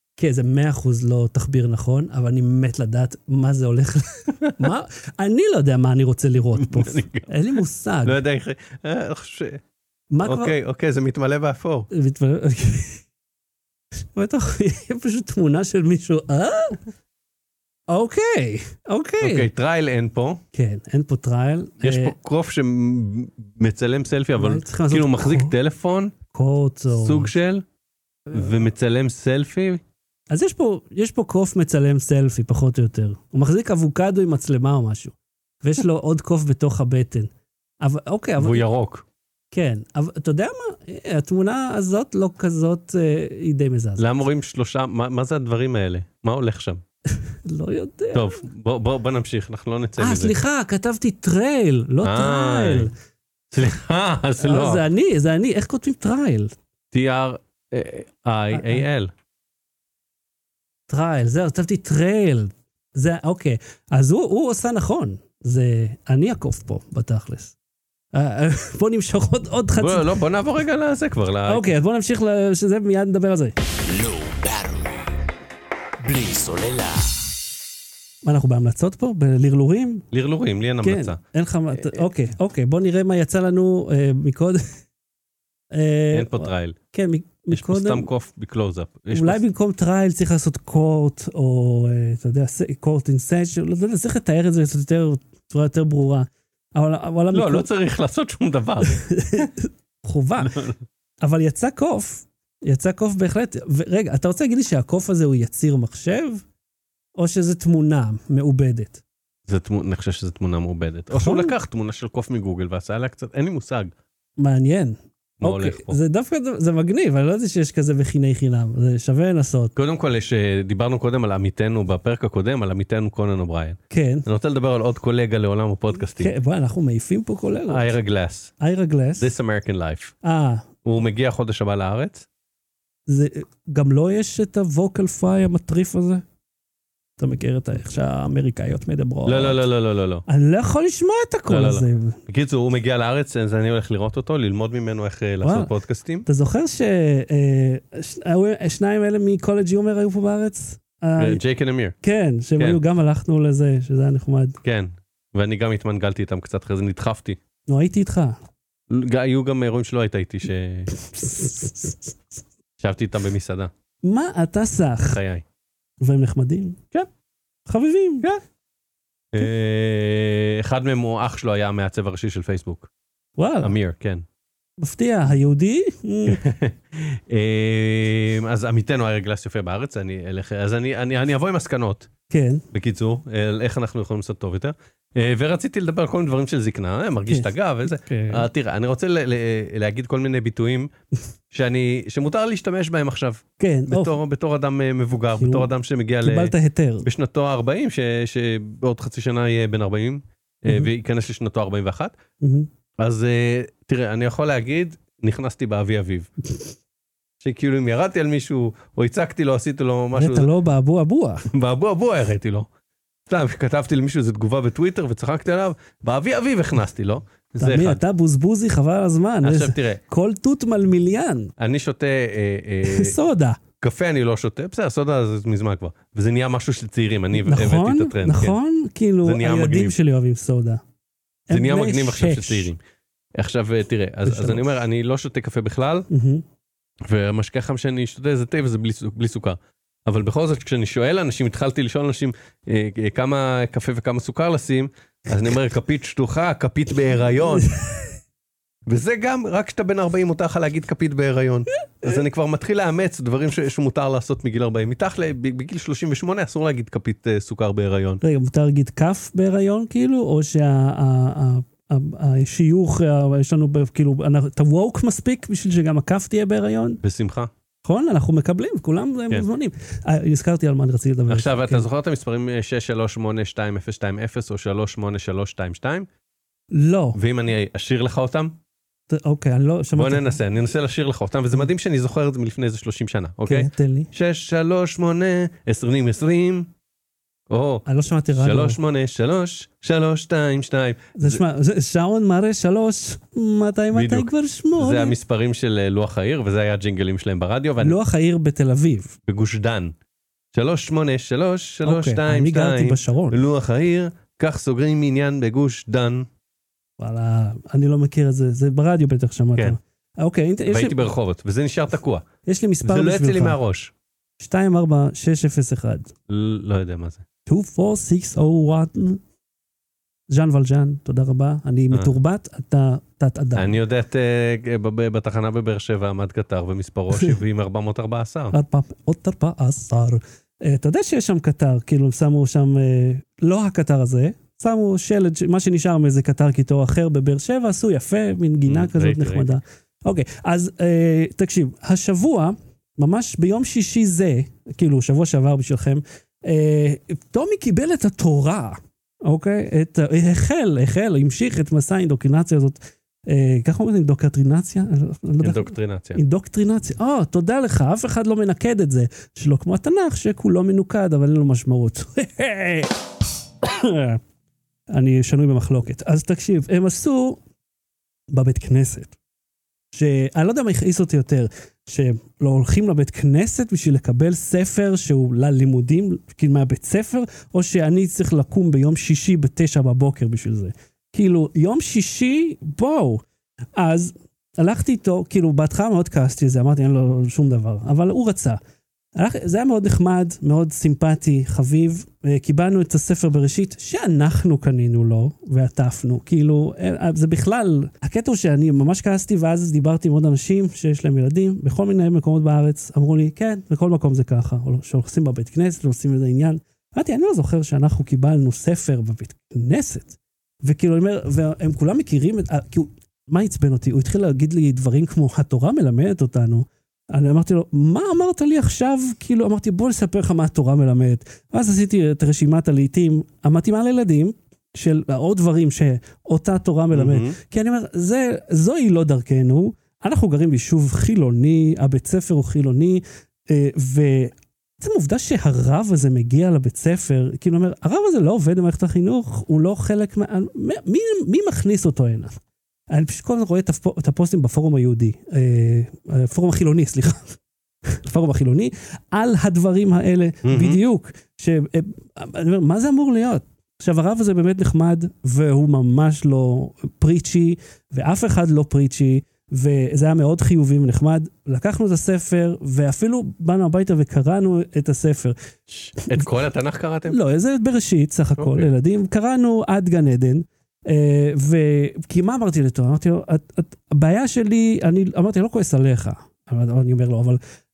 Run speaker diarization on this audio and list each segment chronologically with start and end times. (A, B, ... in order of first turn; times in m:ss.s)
0:00.2-0:08.2 A
0:06.6-0:07.3 B
0:08.0-0:09.6 B
0:10.1-0:10.5 A
0:10.2-0:11.9 B
0:11.9-0:13.0 A
0:14.0-0:16.8 A
0:17.9-0:19.5 A
0:19.2-0:20.4 B
0:20.5-0:22.1 A
0:21.8-0:26.1 B
0:24.3-0:25.5 A
0:26.3-0:27.3 A
0:26.9-0:27.6 B
0:28.3-0:29.8 B
0:30.3-0:38.6 A
0:38.4-0:39.0 B
0:39.5-0:44.0 A
0:44.0-0:46.8 B
0:47.3-0:48.4 A
0:48.1-0:50.4 B
0:50.0-0:52.9 A
0:52.0-0:52.9 B
0:53.5-0:54.8 B
0:54.4-0:56.6 A
0:56.9-0:59.1 B
0:58.5-0:58.8 A
1:00.9-1:07.5 A
1:08.1-1:10.2 A
1:09.8-1:11.7 B
1:11.5-1:13.5 A
1:13.8-1:15.1 C
1:16.0-1:17.3 C
1:18.2-1:20.0 A
1:20.1-1:21.2 B
1:20.8-1:24.6 A
1:21.8-1:22.0 B
1:25.7-1:28.1 A
1:26.1-1:26.8 B
1:27.5-1:29.4 B
1:29.1-1:37.7 A
1:37.3-1:39.4 B
1:38.8-1:40.6 A
1:40.4-1:40.8 B
1:41.2-1:46.4 A
1:47.2-1:49.0 A
1:49.4-1:53.9 B
1:51.1-1:51.5 A
1:54.4-1:59.7 A
1:55.4-1:56.0 B
1:59.8-2:06.3 B
2:03.9-2:04.2 A
2:06.2-2:07.9 A
2:07.7-2:08.5 B
2:08.6-2:09.3 A
2:09.2-2:10.1 B
2:10.2-2:10.7 A
2:10.8-2:12.2 B
2:13.1-2:16.2 A
2:17.2-2:19.6 A
2:19.2-2:20.2 B
2:20.3-2:22.2 A
2:21.5-2:26.2 B
2:25.4-2:25.7 A
2:26.2-2:31.4 A
2:31.2-2:32.0 B
2:32.0-2:34.6 A
2:34.6-2:37.4 B
2:37.7-2:38.4 A
2:38.9-2:40.9 B
2:40.9-2:42.1 A
2:42.8-2:43.7 B
2:44.0-2:45.2 A
2:45.1-2:45.4 B
2:46.0-2:46.8 A
2:47.7-2:48.3 A
2:49.3-2:52.9 B
2:53.4-2:53.8 A
2:53.6-2:54.2 B
2:54.8-2:56.4 A
2:56.3-3:02.1 B
3:02.3-3:02.6 A
3:02.7-3:10.9 B
3:07.3-3:08.4 A
3:11.5-3:16.5 B
3:13.6-3:14.2 A
3:15.4-3:15.7 A
3:16.2-3:17.1 A
3:17.0-3:22.1 B
3:22.4-3:22.7 A
3:23.0-3:26.3 B
3:27.4-3:30.5 B
3:30.1-3:31.5 A
3:31.5-3:32.7 B
3:33.3-3:38.0 B
3:37.6-3:41.5 A
3:39.4-3:40.0 B
3:41.6-3:43.2 B
3:42.8-3:43.6 A
3:43.8-3:48.6 B
3:47.3-3:50.8 A
3:49.2-3:50.0 B
3:51.5-3:52.7 A
3:51.5-3:52.8 B
3:53.3-3:56.1 B
3:54.2-3:54.6 A
3:56.1-3:56.4 A
3:57.0-4:07.7 B
4:07.6-4:08.0 A
4:08.8-4:18.2 B
4:18.2-4:27.0 A
4:27.0-4:27.5 B
4:27.8-4:31.9 A
4:31.3-4:36.1 B
4:36.7-4:37.2 A
4:37.1-4:38.6 B
4:39.1-4:40.4 A
4:40.0-4:46.7 B
4:43.4-4:44.1 A
4:47.5-4:51.4 B
4:47.8-4:48.8 A
4:51.2-4:55.1 A
4:53.9-4:58.0 B
4:57.8-4:59.2 A
4:59.3-4:59.9 B
5:00.5-5:06.3 B
5:01.8-5:03.4 A
5:07.0-5:11.0 A
5:10.7-5:12.2 B
5:12.4-5:13.6 A
5:12.8-5:13.9 B
5:14.4-5:16.1 A
5:16.3-5:17.2 B
5:17.4-5:19.2 A
5:20.3-5:23.8 A
5:23.6-5:28.5 B
5:28.5-6:02.9 A
5:38.6-5:39.6 B
5:55.4-5:56.2 B
6:03.6-6:04.2 A
6:04.9-6:07.4 A
6:08.3-6:09.2 A
6:09.9-6:23.2 A
6:23.8-6:28.6 A
6:29.2-7:22.3 A
7:06.9-7:07.4 B
7:22.9-7:45.4 A
7:30.4-7:30.8 B
7:45.7-7:47.2 B
7:46.0-7:46.3 A
7:47.1-7:57.4 A
7:48.4-7:48.7 B